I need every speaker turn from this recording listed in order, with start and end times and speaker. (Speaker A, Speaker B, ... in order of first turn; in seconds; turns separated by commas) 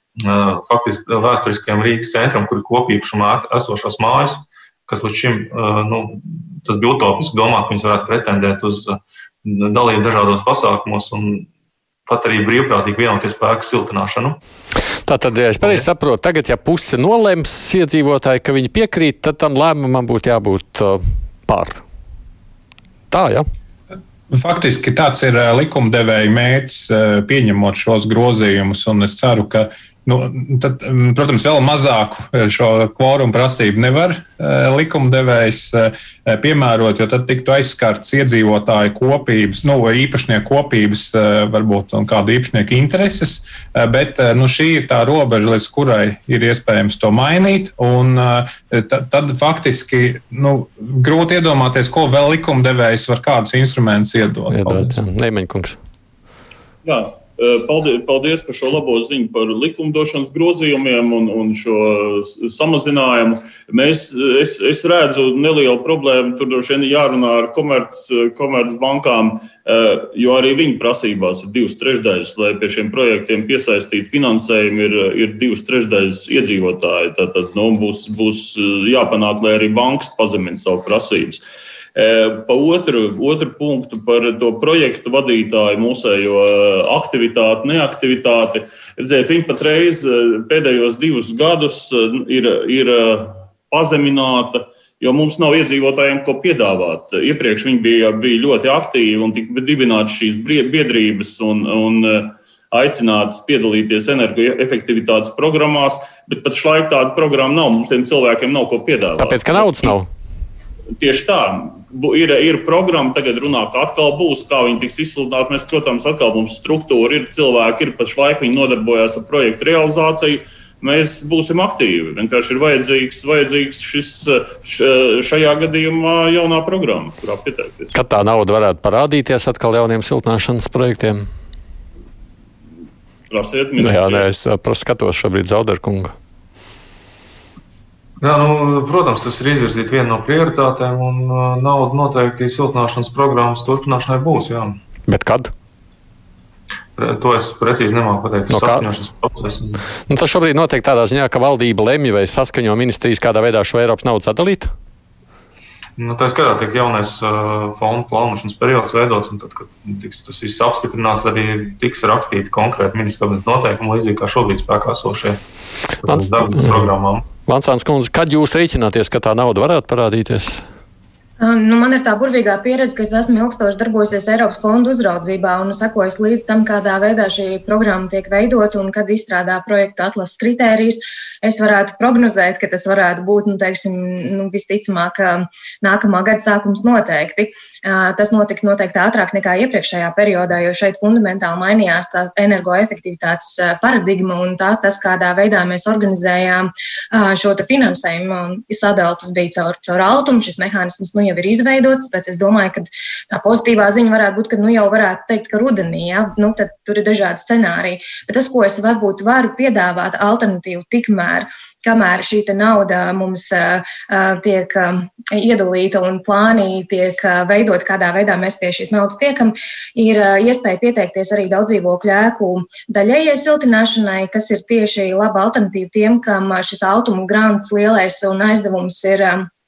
Speaker A: 0.2-11.5, Speaker A: 12.1-14.4, Speaker B: 15.1-21.8, Speaker B: 23.1-23.5, Speaker C: 24.3-55.0, Speaker B: 54.5-55.8, Speaker D: 56.8-81.4, Speaker D: 82.0-110.0, Speaker B: 109.2-110.1, Speaker D: 111.0-127.9, Speaker B: 127.9-131.3, Speaker D: 133.3-134.3, Speaker B: 133.8-136.1, Speaker A: 138.2-144.8, Speaker B: 145.1-145.5, Speaker A: 147.0-149.8, Speaker B: 148.5-148.9, Speaker B: 150.1-154.7, Speaker A: 156.0-165.4, Speaker A: 166.0-167.3, Speaker B: 166.1-170.6, Speaker E: 171.4-229.5